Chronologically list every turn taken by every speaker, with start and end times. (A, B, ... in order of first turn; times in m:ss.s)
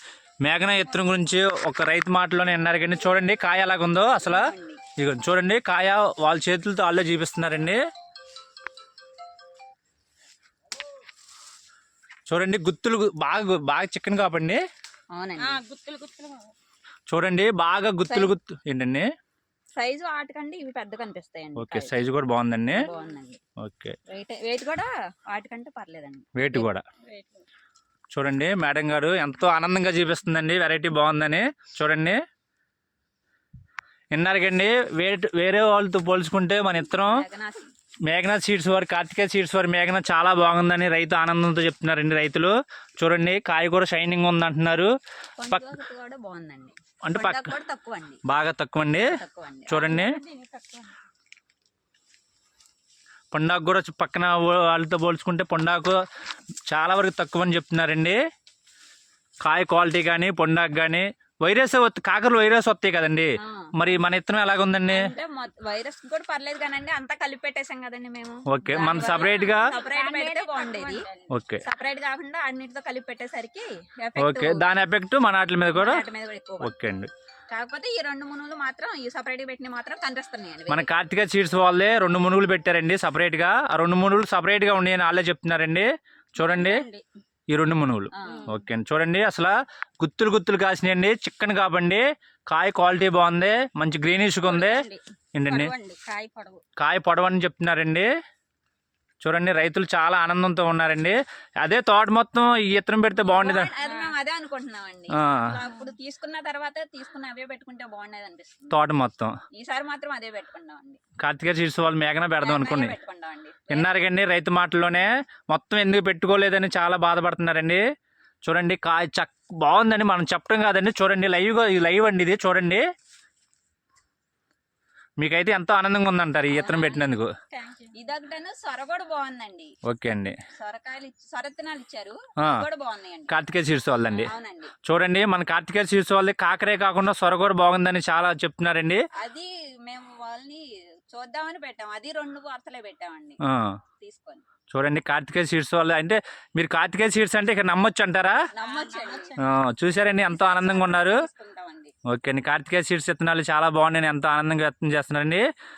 0:00.4-0:07.8 A
0:04.2-0:04.9 B
0:12.3-0:14.6 A
0:15.1-0:15.6 B
0:15.4-0:16.6 C
0:17.1-0:19.1 A
0:18.1-0:18.4 B
0:19.8-0:22.0 B
0:21.6-0:22.9 A
0:22.7-0:23.4 B
0:23.6-0:24.0 A
0:24.1-0:26.7 B
0:26.4-0:26.8 A
0:27.0-0:27.4 C
0:28.1-0:32.2 A
0:34.1-0:37.2 A
0:36.9-0:37.7 B
0:38.1-0:44.9 A
0:45.4-0:48.2 B
0:47.0-0:47.5 A
0:48.3-0:49.1 A
0:49.0-0:49.9 B
0:49.7-0:50.2 A
0:49.8-0:51.0 C
0:53.3-0:56.0 A
0:56.7-0:58.2 A
0:59.4-1:05.0 A
1:03.4-1:03.7 B
1:04.9-1:11.1 B
1:08.5-1:09.7 A
1:09.6-1:11.3 C
1:11.3-1:11.6 A
1:11.6-1:14.6 B
1:14.2-1:16.0 A
1:15.7-1:16.7 B
1:16.6-1:17.1 A
1:17.5-1:20.9 B
1:20.7-1:26.8 A
1:26.4-1:27.0 C
1:27.5-1:35.7 A
1:28.1-1:28.5 B
1:28.3-1:28.6 C
1:34.4-1:36.6 C
1:36.8-1:38.1 A
1:39.2-1:43.7 A
1:43.2-1:48.8 B
1:43.8-1:44.1 C
1:45.2-1:45.5 A
1:45.6-1:45.9 C
1:48.7-1:49.3 A
1:49.5-1:51.0 B
1:51.2-1:52.9 A
1:52.4-1:54.0 B
1:53.7-1:57.8 A
1:58.4-2:02.8 A
2:05.2-2:07.3 A
2:06.5-2:07.1 B
2:07.5-2:07.9 C
2:07.9-2:09.7 B
2:09.9-2:10.4 A
2:10.6-2:13.4 B
2:13.3-2:14.3 A
2:14.1-2:14.7 B
2:14.8-2:19.0 A
2:19.2-2:23.4 B
2:23.4-2:23.8 A
2:24.0-2:24.4 B
2:24.7-2:28.4 A
2:28.5-2:29.4 B
2:28.6-2:29.6 C
2:29.4-2:31.2 A
2:30.2-2:31.9 B
2:32.1-2:35.4 A